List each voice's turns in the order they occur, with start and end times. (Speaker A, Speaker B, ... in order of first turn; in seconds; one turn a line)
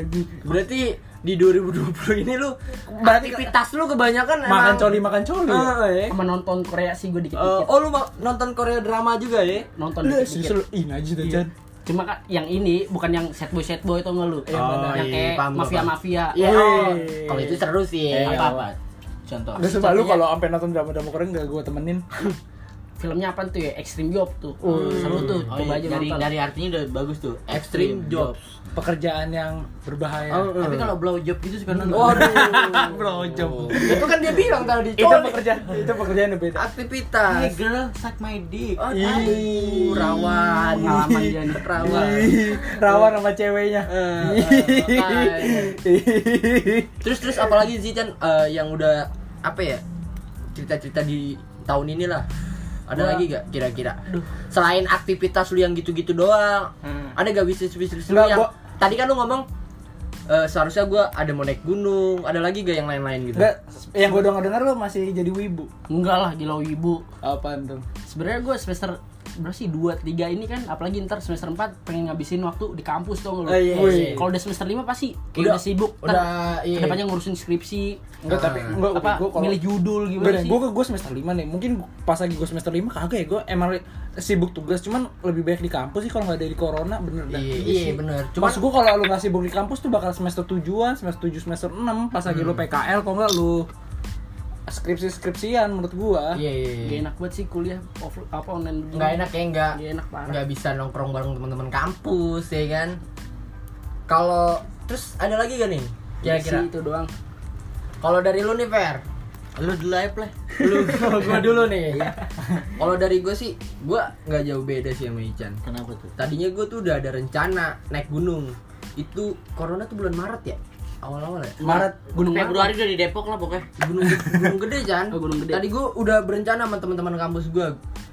Speaker A: 0.3-6.2
Speaker B: 2.9-3.5
Speaker B: 4.5-5.8
Speaker C: 6.1-7.7
Speaker A: 7.3-9.7
Speaker C: 9.7-10.6
Speaker B: 10.0-11.5
Speaker C: 11.9-16.8
Speaker B: 14.5-15.1
Speaker A: 14.5-18.6
Speaker B: 16.4-17.6
Speaker D: 18.1-19.8
Speaker B: 18.2-18.6
Speaker B: 19.6-22.1
Speaker C: 19.7-20.2
Speaker C: 23.0-26.3
Speaker A: 24.6-25.5
Speaker D: 24.7-28.4
Speaker A: 27.5-28.4
Speaker B: 28.8-30.5
Speaker A: 30.3-30.9
Speaker D: 30.5-34.0
Speaker B: 31.8-34.2
Speaker A: 31.9-35.5
Speaker B: 35.0-36.6
Speaker A: 36.5-37.6
Speaker D: 37.3-40.5
Speaker A: 38.8-43.1
Speaker B: 38.9-39.7
Speaker B: 40.4-47.5
Speaker C: 40.8-42.3
Speaker A: 43.9-45.8
Speaker A: 47.0-49.8
Speaker A: 50.5-52.3
Speaker A: 52.9-59.5
Speaker B: 53.0-53.2
Speaker B: 58.1-58.5
Speaker A: 60.3-63.5
Speaker B: 63.4-65.7
Speaker C: 65.9-67.0
Speaker B: 67.2-67.8
Speaker C: 68.1-78.0
Speaker A: 73.5-74.3
Speaker B: 73.6-74.3
Speaker A: 75.4-77.0
Speaker B: 78.2-79.6
Speaker A: 78.3-78.8
Speaker C: 78.8-80.6
Speaker B: 80.2-93.7
Speaker A: 87.3-88.6
Speaker A: 92.3-92.6
Speaker B: 94.7-96.4
Speaker A: 96.3-97.0
Speaker C: 96.8-100.4
Speaker A: 98.9-103.0
Speaker A: 104.1-106.7
Speaker C: 106.2-107.1
Speaker A: 108.0-109.0
Speaker D: 109.6-111.3
Speaker A: 110.6-112.2
Speaker A: 112.8-115.6
Speaker D: 115.6-116.1
Speaker A: 116.2-121.9
Speaker B: 121.6-122.1
Speaker D: 121.6-123.7
Speaker C: 122.1-122.8
Speaker A: 123.8-127.8
Speaker C: 125.1-125.7